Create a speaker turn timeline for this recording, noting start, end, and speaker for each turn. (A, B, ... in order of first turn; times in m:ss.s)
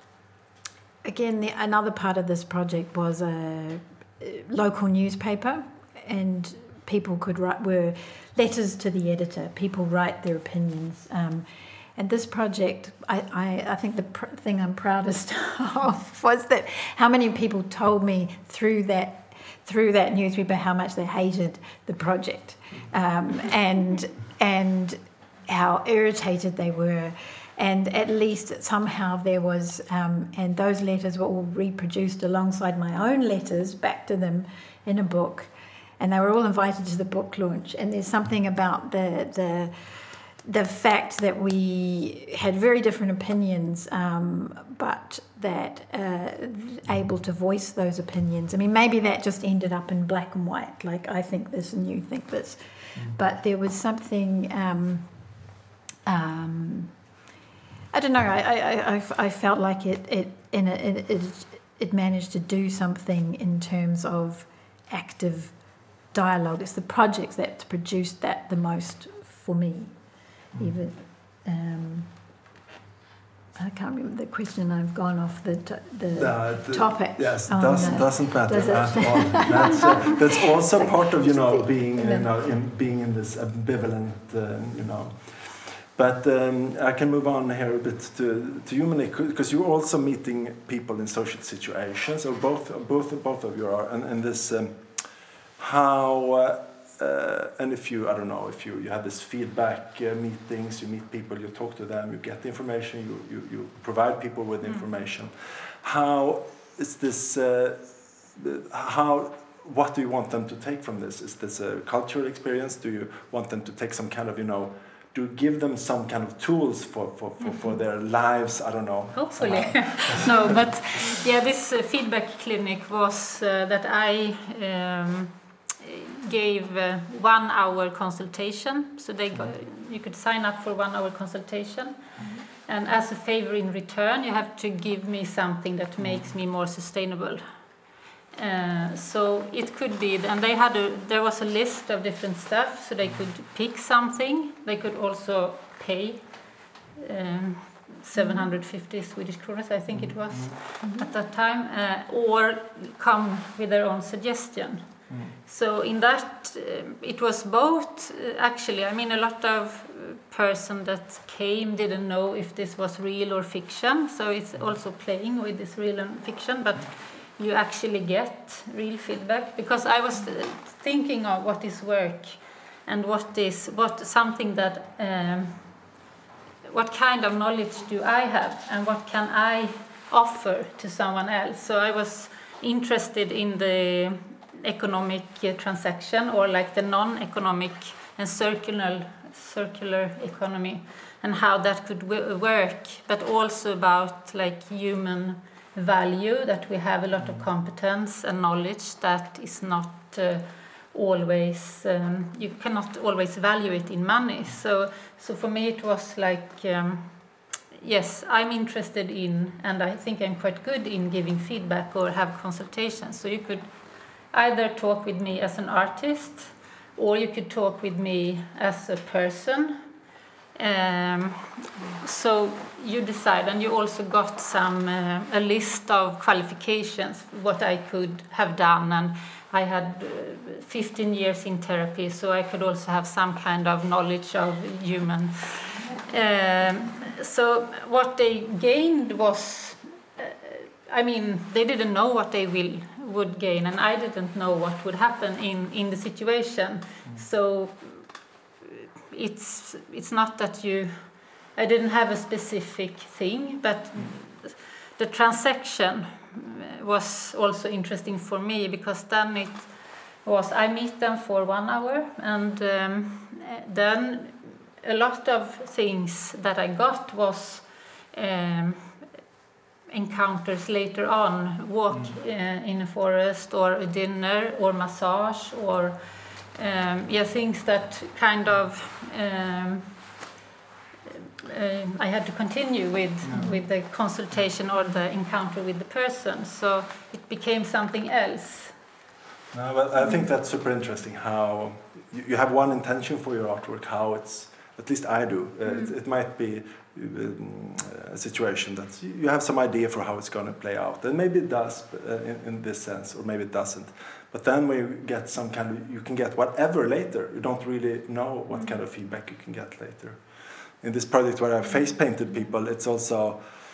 0:01.0-0:39.7 A
0:40.4-0:55.4 A
0:56.1-0:57.0 A
0:57.9-1:12.1 A
1:13.6-1:20.2 A
1:16.1-2:00.7 B
1:20.7-1:22.3 A
1:59.2-2:12.0 C
2:12.6-2:17.7 C
2:16.0-2:16.3 B
2:18.3-2:34.9 C
2:28.2-2:28.5 A
2:29.9-2:30.6 B
2:30.8-2:31.1 A
2:35.1-2:35.4 B
2:35.4-2:56.0 C
2:56.6-3:33.7 C
3:17.2-3:17.4 B
3:34.3-3:39.8 C
3:40.6-4:08.2 C
4:09.1-4:29.1 C
4:29.9-4:40.0 C
4:31.9-4:32.2 B
4:41.1-4:48.8 C
4:43.2-4:43.5 B
4:49.5-5:10.2 B
5:10.8-5:13.4 B